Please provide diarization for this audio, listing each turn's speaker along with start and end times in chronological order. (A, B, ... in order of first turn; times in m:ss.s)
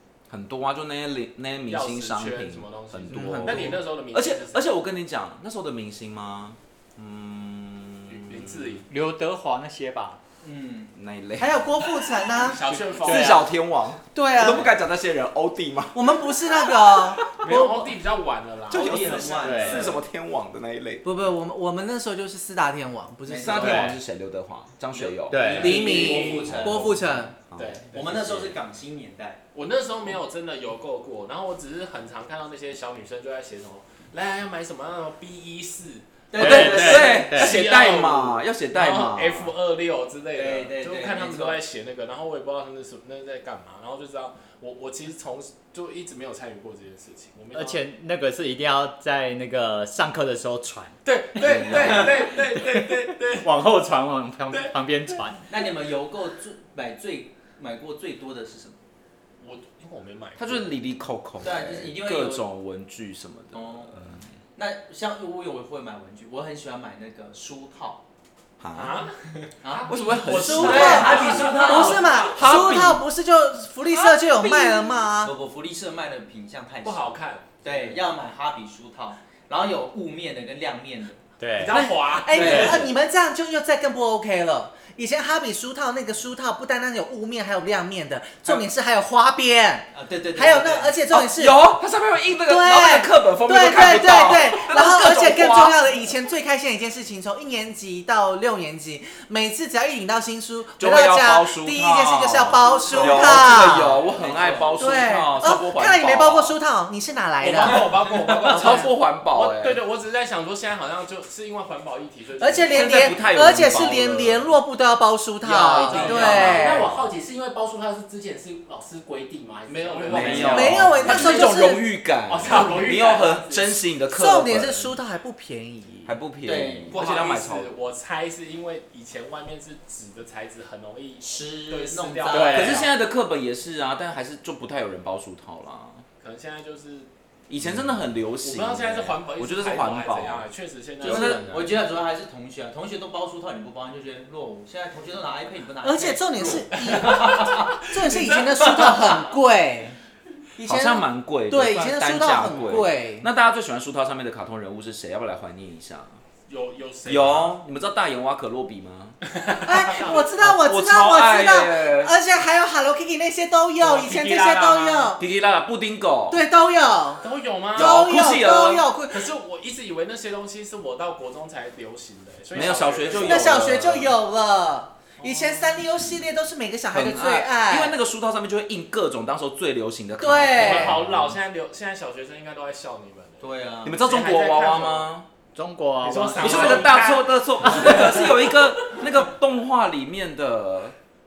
0:00.3-0:08.8 A
0:01.7-0:04.7 B
0:03.1-0:03.8 C
0:08.1-0:08.9 B
0:08.9-0:10.2 C
0:10.4-0:10.9 D
0:10.9-0:11.6 A
0:11.4-0:12.6 E
0:12.4-0:13.5 B
0:13.0-0:16.6 A
0:13.0-0:13.4 C
0:14.1-0:14.7 E
0:15.9-0:17.9 E
0:17.4-0:19.8 B
0:18.7-0:21.0 A
0:18.7-0:20.0 D
0:19.4-0:19.9 C
0:21.0-0:23.9 E
0:23.3-0:24.0 D
0:23.4-0:27.0 A
0:23.6-0:24.0 C
0:24.9-0:26.6 B
0:25.3-0:25.9 C
0:25.3-0:27.0 D
0:25.6-0:27.4 E
0:27.5-0:27.8 A
0:27.6-0:28.6 B
0:27.9-0:29.4 D
0:29.5-0:36.2 B
0:36.3-0:37.5 D
0:36.4-0:37.6 C
0:36.4-0:39.5 A
0:36.8-0:47.8 B
0:40.4-0:41.6 D
0:47.5-0:51.0 C
0:51.0-0:53.5 B
0:51.4-0:52.1 D
0:51.4-0:52.1 A
0:51.7-0:55.5 C
0:55.5-0:58.8 D
0:59.4-1:00.8 B
1:00.4-1:04.2 A
1:01.4-1:02.5 D
1:03.5-1:03.9 D
1:04.6-1:08.0 D
1:08.6-1:09.1 A
1:08.7-1:09.1 B
1:09.6-1:12.3 D
1:09.8-1:13.0 A
1:10.2-1:12.4 B
1:10.3-1:15.3 E
1:11.6-1:12.2 F
1:14.4-1:21.2 D
1:16.8-1:17.9 B
1:21.4-1:21.9 C
1:21.6-1:22.8 B
1:21.7-1:31.8 E
1:22.3-1:22.8 A
1:22.4-1:22.9 D
1:22.4-1:22.8 C
1:29.9-1:31.0 D
1:31.1-1:35.8 A
1:32.5-1:44.0 E
1:40.8-1:46.6 A
1:42.8-1:45.0 D
1:44.8-1:48.9 E
1:47.4-1:53.2 B
1:48.5-1:49.8 A
1:52.4-1:56.9 E
1:52.7-1:54.6 A
1:55.6-1:56.9 B
1:55.8-2:01.5 F
1:55.9-1:56.8 A
1:59.7-2:01.5 B
2:00.1-2:04.9 A
2:00.3-2:00.8 D
2:00.5-2:01.8 E
2:02.3-2:03.7 F
2:02.4-2:03.0 B
2:04.1-2:06.1 E
2:06.1-2:07.7 A
2:06.4-2:07.0 D
2:06.9-2:12.8 B
2:11.2-2:12.8 D
2:12.3-2:12.9 C
2:12.5-2:16.0 A
2:16.2-2:17.1 B
2:17.5-2:20.5 A
2:18.4-2:21.8 B
2:21.0-2:21.7 A
2:21.0-2:29.2 D
2:25.8-2:30.0 E
2:26.9-2:27.2 B
2:30.6-2:33.3 E
2:30.7-2:36.2 A
2:36.5-2:37.5 B
2:37.1-2:39.2 A
2:39.5-2:40.1 B
2:39.6-2:45.2 E
2:40.1-2:42.1 A
2:43.8-2:45.2 B
2:45.2-2:46.4 A
2:46.3-2:47.2 E
2:47.2-2:48.0 B
2:47.8-2:48.8 A
2:47.8-2:49.3 E
2:49.1-2:53.6 B
2:52.5-2:54.2 A
2:53.2-2:58.0 E
2:55.2-2:55.9 B
2:56.9-3:01.0 A
3:00.2-3:01.0 E
3:00.5-3:05.1 B
3:03.4-3:04.0 D
3:03.8-3:05.3 A
3:05.6-3:07.0 C
3:06.0-3:07.3 B
3:06.4-3:11.0 A
3:07.6-3:08.3 C